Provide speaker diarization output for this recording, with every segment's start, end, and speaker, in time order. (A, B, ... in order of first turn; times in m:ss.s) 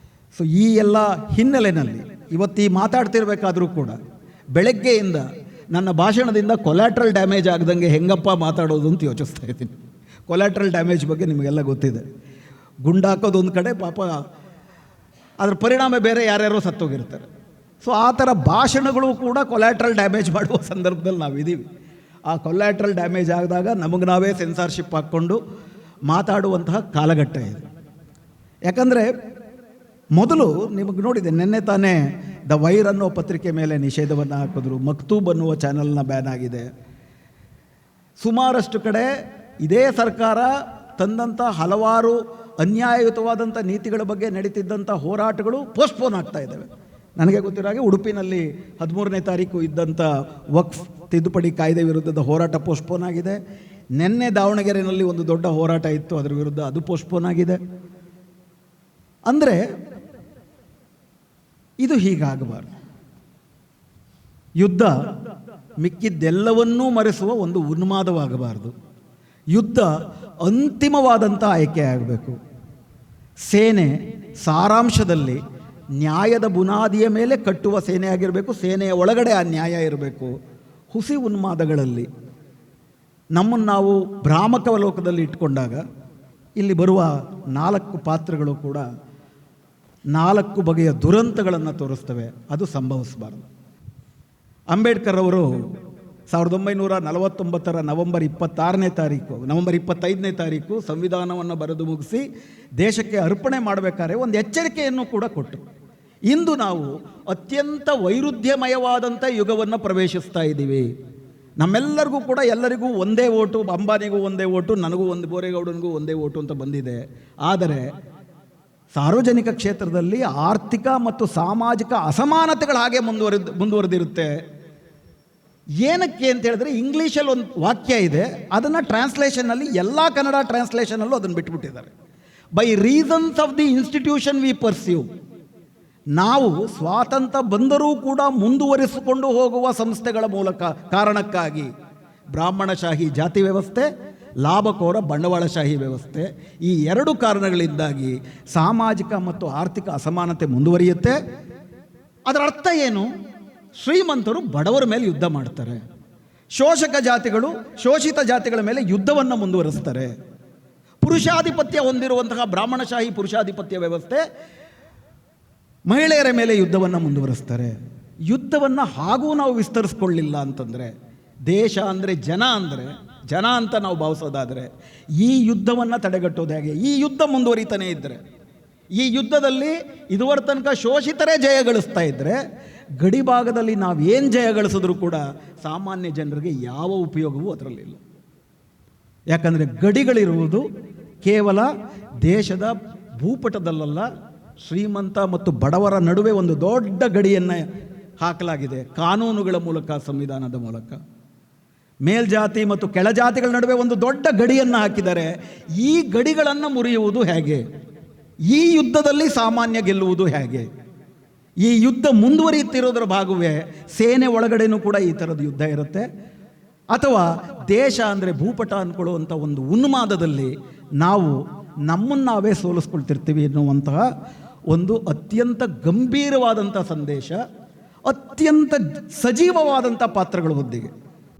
0:00.3-0:04.0 A
0:04.5-0:09.8 A
0:10.3-0:12.0 A
0:12.8-0:14.1 A
0:15.4-0:17.3 A
0:17.8-0:21.6 A
0:22.3-0:25.4 A
0:26.1-0:27.6 A
0:28.7-0:29.1 A
0:30.1-0:36.7 A
0:38.2-0:39.1 A
0:39.6-0:46.7 A
0:47.2-0:53.4 A
0:54.0-0:57.6 A
0:59.3-0:59.6 A
1:01.8-1:02.7 A
1:04.6-1:04.9 A
1:05.8-1:08.7 A
1:09.5-1:09.9 A
1:10.4-1:12.4 A
1:13.5-1:15.4 A
1:16.0-1:20.3 A
1:20.9-1:22.1 A
1:23.3-1:25.8 A
1:26.6-1:28.8 A
1:30.1-1:33.4 A
1:34.7-1:35.5 A
1:36.3-1:42.2 A
1:42.8-1:45.6 A
1:46.3-1:50.9 A
1:51.6-1:57.9 A
1:58.9-2:04.3 A
2:05.8-2:11.9 A
2:12.5-2:15.1 A
2:16.2-2:21.7 A
2:22.3-2:23.9 A
2:24.4-2:31.2 A
2:32.3-2:33.1 A
2:33.8-2:35.8 A
2:36.5-2:40.1 A
2:41.0-2:44.2 A
2:45.9-2:47.7 A
2:48.3-2:50.9 A
2:51.5-2:58.2 A
2:59.0-3:02.4 A
3:03.0-3:08.0 A
3:09.3-3:10.6 A
3:11.2-3:11.7 A
3:12.2-3:14.1 A
3:14.6-3:17.6 A
3:18.2-3:21.0 A
3:22.0-3:27.6 A
3:28.5-3:30.7 A
3:31.6-3:36.0 A
3:36.9-3:44.0 A
3:44.7-3:47.4 A
3:48.1-3:50.9 A